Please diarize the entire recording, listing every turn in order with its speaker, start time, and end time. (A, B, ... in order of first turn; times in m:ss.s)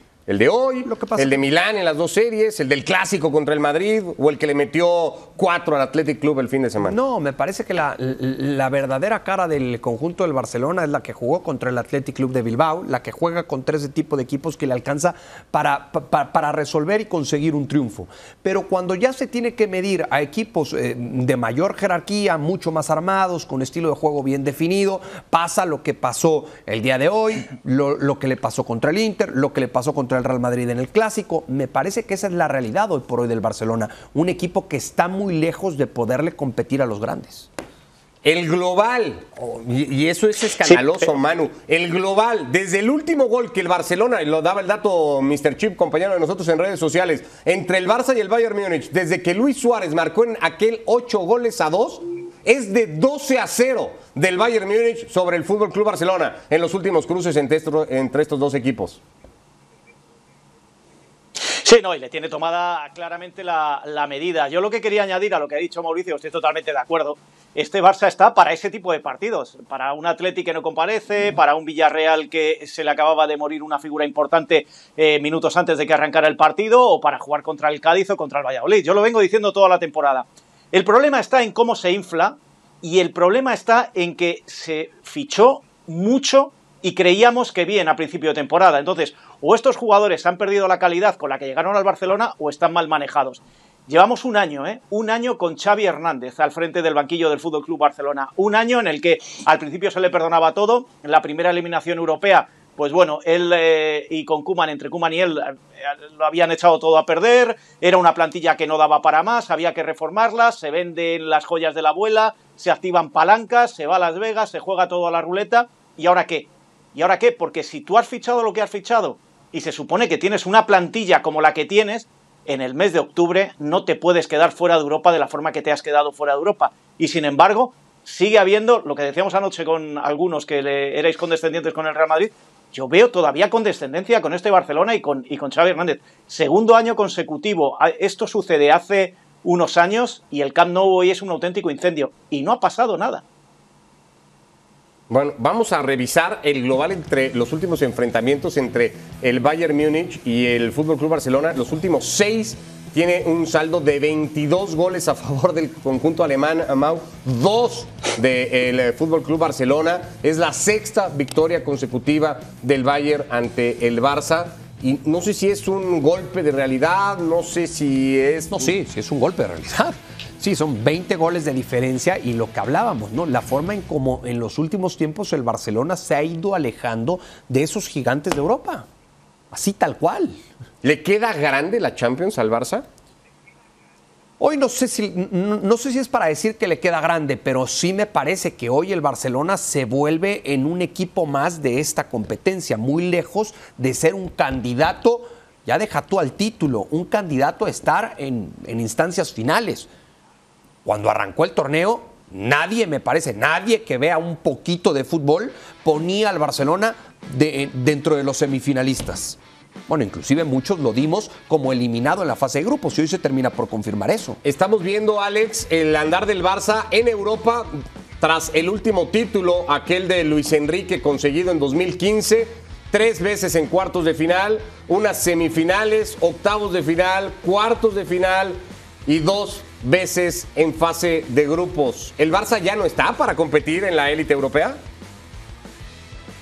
0:00.3-0:07.0 A
0:00.8-0:01.4 B
0:06.8-0:37.5 B
0:38.2-0:59.0 A
1:01.6-2:23.2 C
2:25.1-2:48.7 A
2:48.5-2:58.8 B
2:59.5-3:00.4 B
3:00.8-3:02.8 A
3:04.4-3:19.9 B
3:20.8-3:34.4 B
3:34.4-3:37.7 A
3:38.2-3:54.8 A